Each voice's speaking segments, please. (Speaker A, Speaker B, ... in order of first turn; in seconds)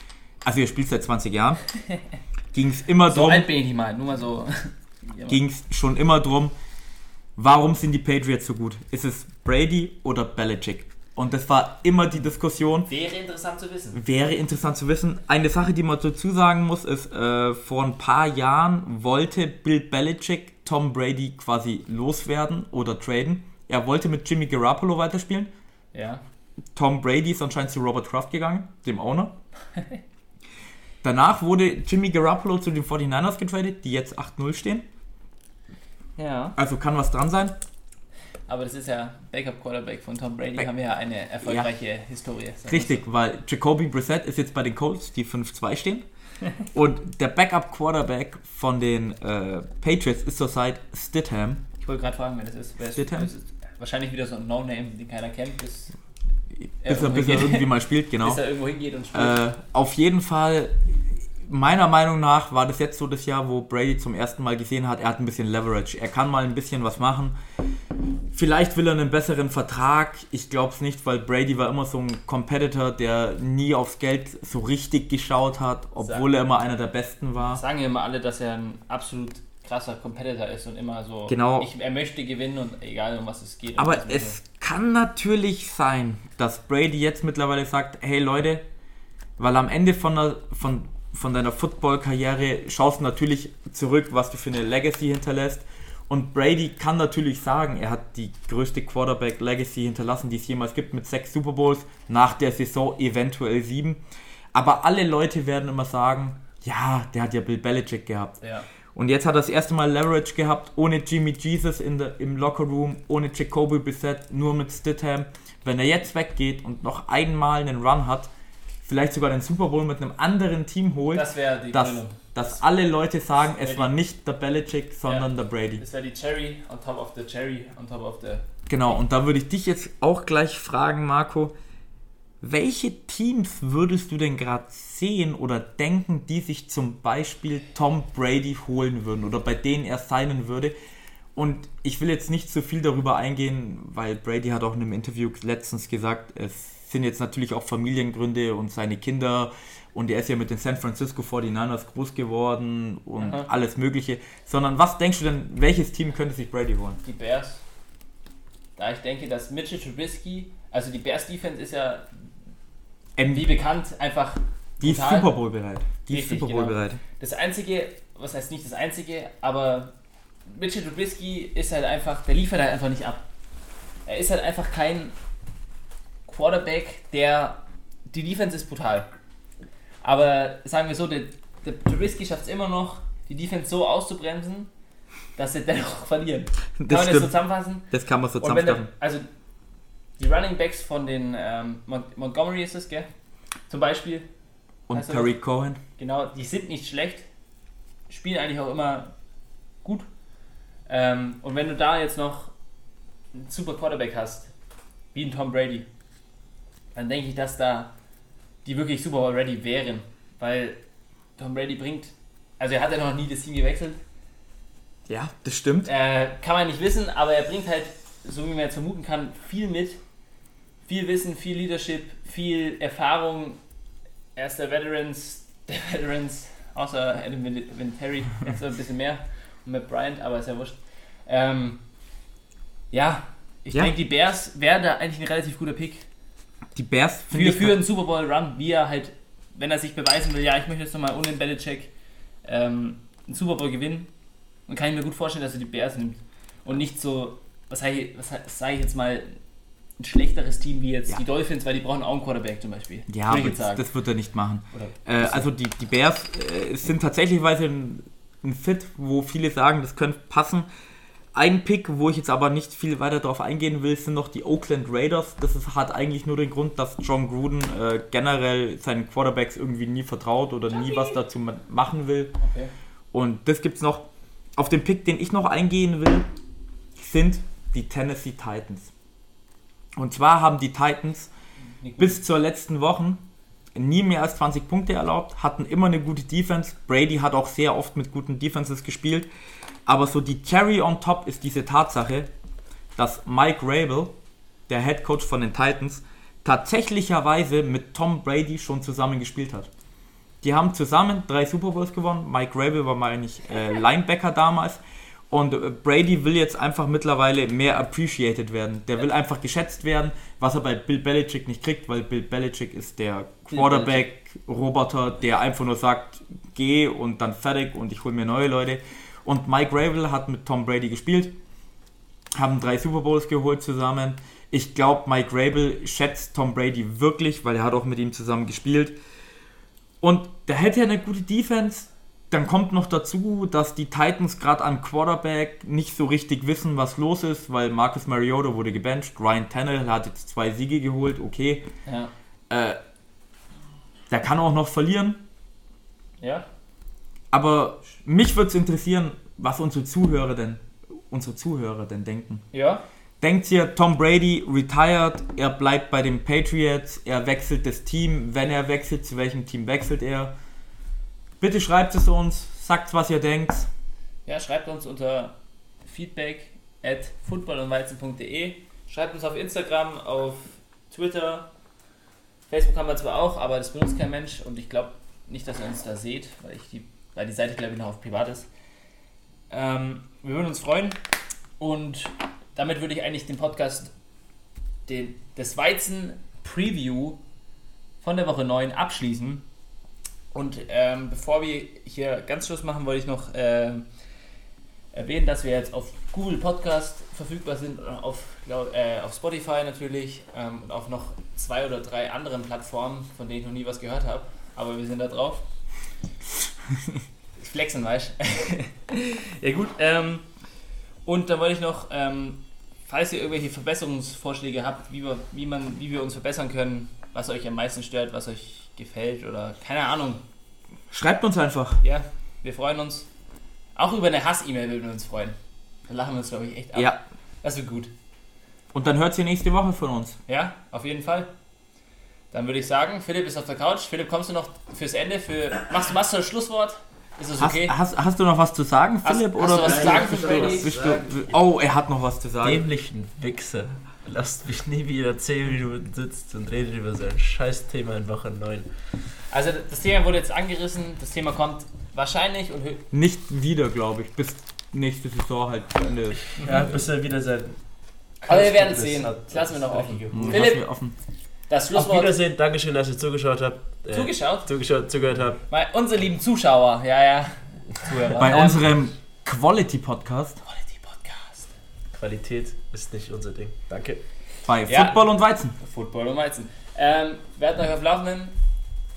Speaker A: 0.4-1.6, 2.5-3.5, 5.3-6.5, 7.4-12.9, 13.9-25.5, 26.8-29.4, 31.0-34.9, 36.6-37.6, 41.4-41.7, 42.7-46.1, 46.6-51.6, 53.0-53.3, 56.6-58.4, 59.1-67.4, 68.3-77.6, 81.3-81.7, 83.8-88.6, 89.4-104.0, 104.5-108.4, 109.0-118.3, 118.8-125.8, 128.7-131.6, 132.4-140.8, 141.3-157.0, 163.2-163.5, 164.8-167.0, 186.8-187.3, 187.9-188.9, 194.9-195.8, 215.1-215.9, 236.8-237.8, 253.1-260.7, 261.3-272.4, 273.1-276.3, 277.0-278.9, 280.0-281.3, 282.0-289.3, 289.9-292.3, 293.0-294.2, 294.7-299.7, 300.4-321.4, 322.4-329.0, 330.0-341.7, 342.5-342.8, 344.1-345.2, 347.3-352.5, 353.2-360.4, 361.4-363.7, 420.9-421.8, 426.8-427.0, 428.7-430.2, 437.4-442.6, 452.9-456.3, 460.1-461.0, 468.2-470.4, 474.4-475.6
Speaker B: 3.1-5.4, 12.9-14.0, 25.9-26.2, 36.2-36.6, 38.5-43.0, 51.8-56.0, 56.8-57.7, 58.2-59.4, 76.0-76.2, 77.4-84.4, 121.1-122.6, 123.6-123.9, 125.0-128.5, 153.2-153.5, 157.0-157.6, 158.8-162.3, 163.3-165.3, 166.1-169.9, 170.5-173.3, 174.1-175.1, 176.3-179.1, 180.0-184.7, 185.4-187.9, 188.4-189.3, 190.2-193.1, 193.7-194.3, 194.9-195.3, 196.0-197.3, 198.1-199.1, 200.9-202.5, 203.3-204.5, 205.1-205.9, 206.9-207.9, 208.6-210.8, 211.4-214.0, 215.8-220.0, 220.9-223.6, 224.4-231.8, 232.9-236.1, 237.3-241.9, 242.4-244.1, 244.7-249.4, 250.0-253.8, 254.7-255.5, 270.8-271.1, 272.4-272.7, 281.8-282.2, 313.5-314.1, 341.9-342.1, 346.2-346.5, 352.5-352.9, 364.3-371.5, 372.5-378.5, 379.5-381.0, 381.6-383.9, 384.9-387.2, 388.0-389.5, 390.3-393.9, 394.9-405.5, 407.4-410.3, 411.1-420.2, 421.8-423.1, 423.8-427.9, 430.3-431.3, 432.3-437.7, 439.0-440.7, 449.3-452.9, 458.3-460.7, 461.5-462.2, 463.9-464.5, 465.5-468.7, 470.4-471.5, 474.7-478.4
Speaker C: 439.6-441.3, 442.4-448.7, 456.4-457.6, 458.2-460.5, 461.7-465.4, 471.9-474.0